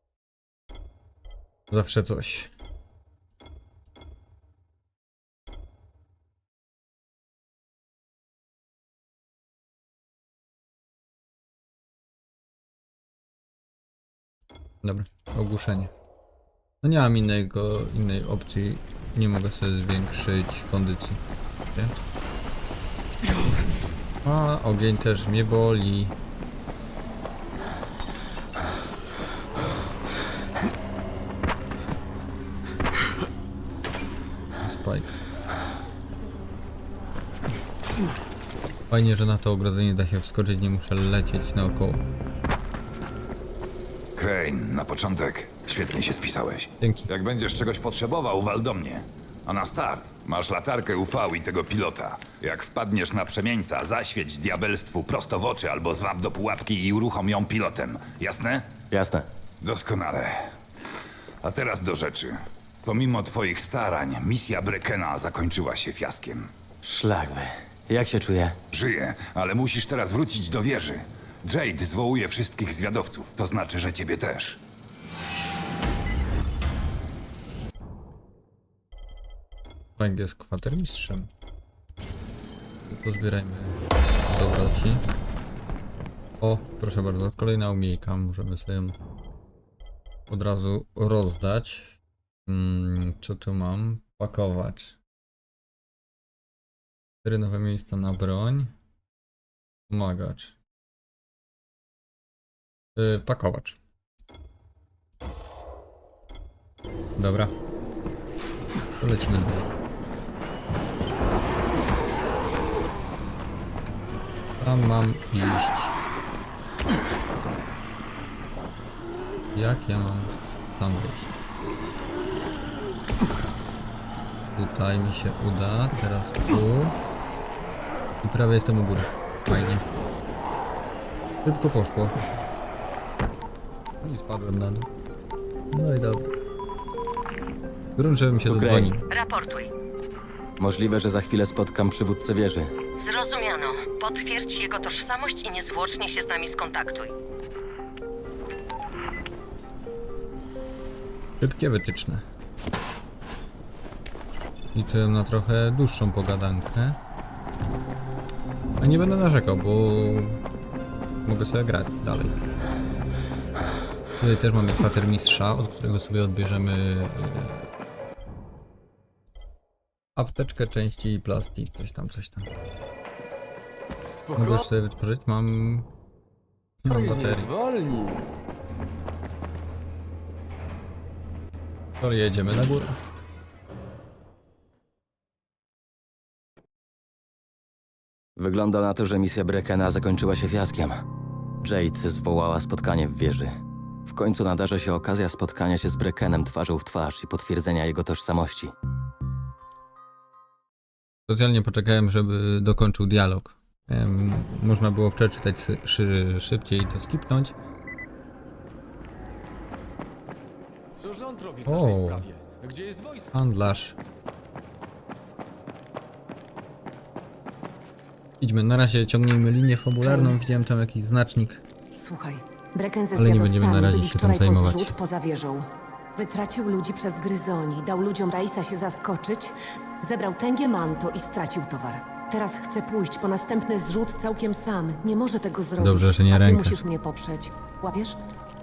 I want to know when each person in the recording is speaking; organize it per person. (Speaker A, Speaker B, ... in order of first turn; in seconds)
Speaker A: 1.7-2.5, 14.8-15.9, 16.8-21.2, 24.2-26.1, 34.6-35.1, 38.9-42.0, 46.8-47.1, 80.0-81.3, 82.9-85.0, 86.4-89.0, 90.3-91.9, 92.5-95.0, 97.2-98.7, 99.9-100.5, 103.0-103.8, 107.2-107.5, 109.0-109.7, 114.6-116.0, 119.5-121.3, 124.5-127.0, 128.2-129.8, 131.4-132.1, 134.0-134.9, 135.7-136.3, 138.0-139.1, 151.4-152.2, 154.7-157.0, 158.8-160.4, 161.2-162.3, 164.2-167.7, 170.2-172.5, 174.3-175.9, 176.8-177.5, 182.0-183.0, 201.3-207.5, 211.7-212.3, 213.3-214.0, 218.4-221.6, 223.1-224.9, 235.8-236.8
Speaker B: 44.1-58.7, 59.6-60.5, 61.4-66.5, 68.7-74.6
Speaker C: 58.9-59.3, 66.8-68.6, 138.4-138.9, 140.6-142.7, 188.4-191.0, 191.6-198.7
Speaker D: 139.1-139.7, 143.0-147.1
Speaker E: 174.1-174.7, 176.9-178.2, 210.9-213.3
Speaker F: 220.0-220.3, 222.0-238.2